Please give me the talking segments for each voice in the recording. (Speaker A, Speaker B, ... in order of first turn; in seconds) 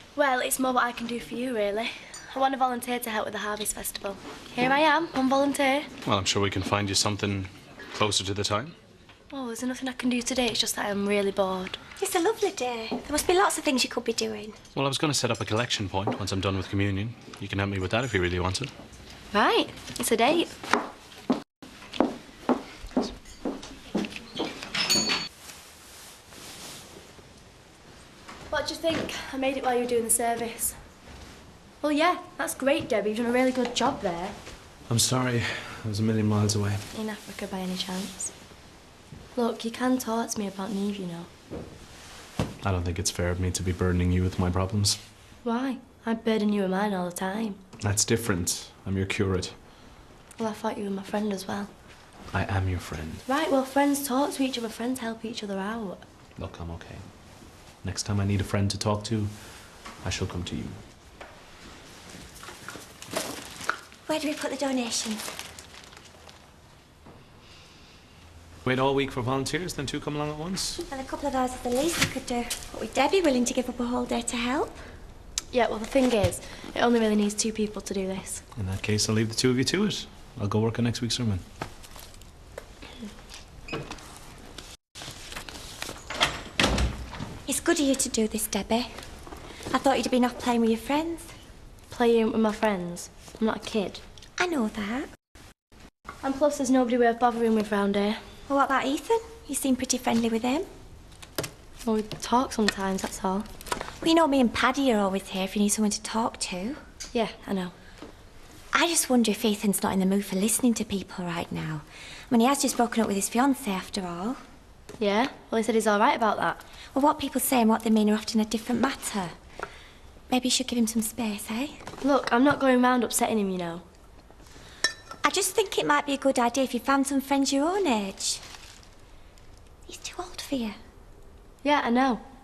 Speaker A: 0.1-5.9, 9.3-11.8, 19.3-20.5, 28.5-30.8, 31.8-34.4, 36.9-38.3, 39.3-41.3, 45.4-47.6, 50.4-51.7, 53.2-56.1, 75.5-78.4, 91.9-94.0, 96.2-98.2, 101.8-103.5, 107.1-107.7, 115.0-116.6, 122.0-123.8, 131.6-132.2
Speaker B: 6.0-8.7, 14.7-18.7, 34.9-36.9, 42.6-45.0, 47.8-49.6, 52.3-53.2, 56.4-60.8, 68.6-70.8, 78.5-81.4
Speaker C: 12.0-14.6, 64.1-65.2, 70.9-74.8, 87.5-88.9, 89.7-91.3, 94.4-95.1, 98.5-100.7, 104.0-106.8, 108.7-114.4, 116.9-119.3, 120.3-121.8, 125.2-128.4, 129.9-130.8